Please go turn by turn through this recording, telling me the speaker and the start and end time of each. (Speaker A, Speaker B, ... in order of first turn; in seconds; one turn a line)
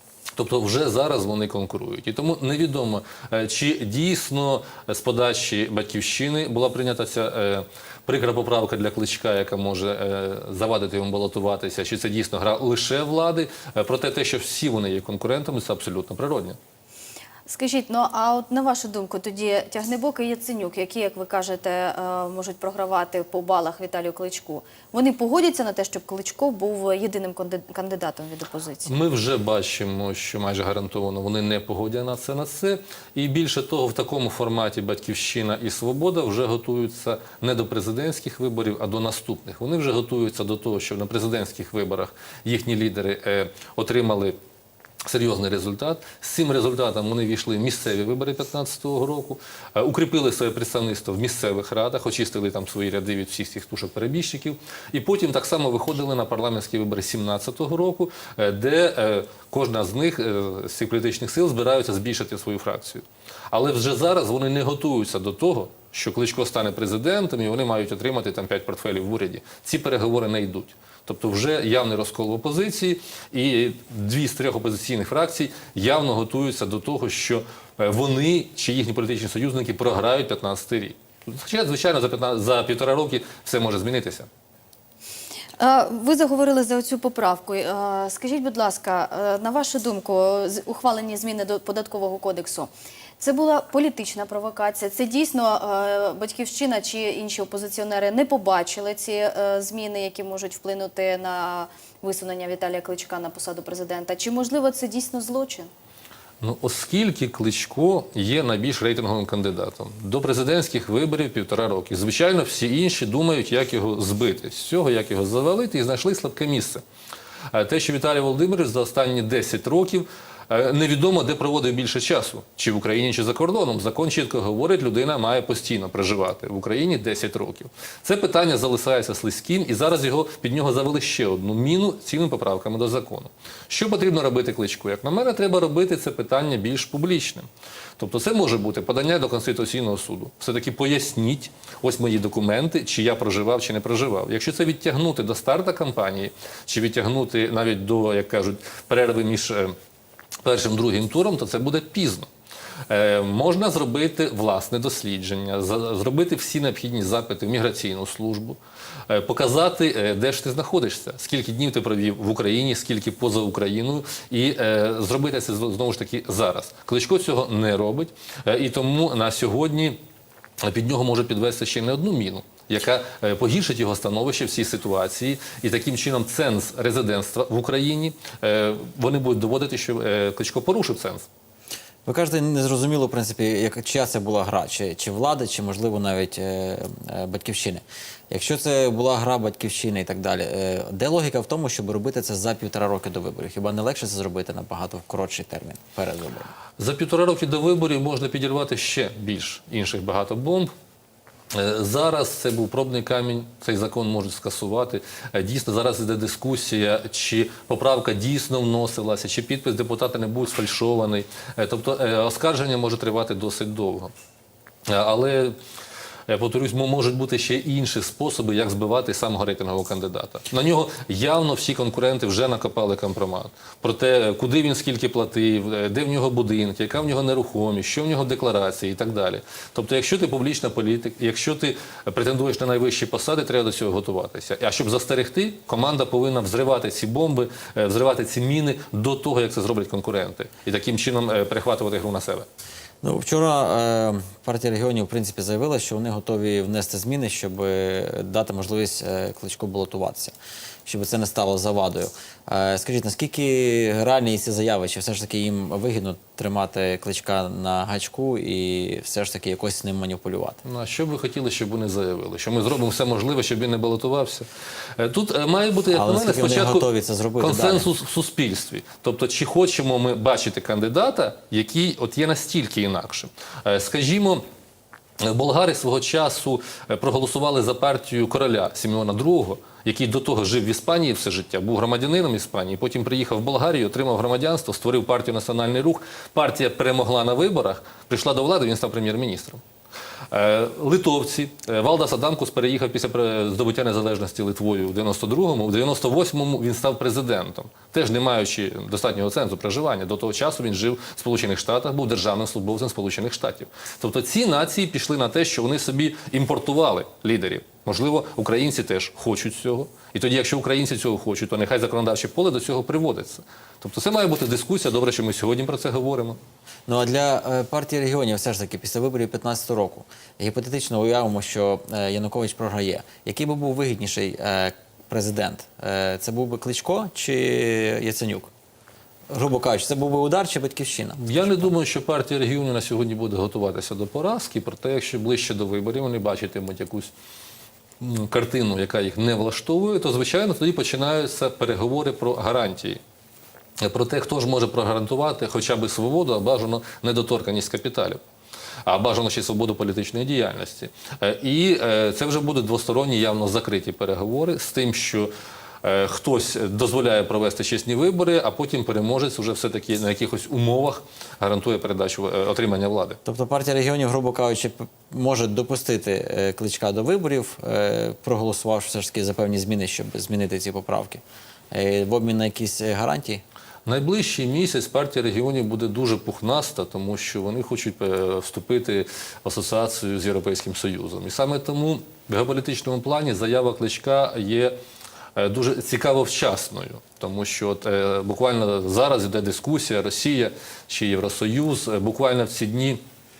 Speaker A: 0.4-16.6
Speaker B: 17.5-28.9
Speaker A: 28.9-44.4
Speaker A: 45.0-84.3
Speaker B: 85.6-105.7
Speaker A: 106.4-116.8
Speaker A: 117.5-137.5
Speaker A: 138.0-149.8
Speaker A: 150.4-152.3
Speaker A: 152.9-170.0
Speaker A: 170.6-181.2
Speaker C: 182.1-196.5
Speaker A: 196.8-200.7
Speaker A: 201.5-214.1
Speaker A: 214.9-215.6
Speaker A: 216.3-242.5
Speaker C: 243.0-250.3
Speaker C: 250.9-260.6
Speaker A: 260.6-266.9
Speaker C: 265.9-267.9
Speaker A: 267.4-274.4
Speaker A: 275.2-289.6
Speaker A: 290.3-316.4
Speaker C: 316.9-328.5
Speaker C: 329.3-331.7
Speaker A: 331.2-337.1
Speaker A: 338.0-343.0
Speaker A: 343.8-348.2
Speaker A: 348.9-355.3
Speaker A: 355.8-363.2
Speaker C: 363.2-373.4
Speaker A: 373.9-384.8
Speaker A: 385.4-393.0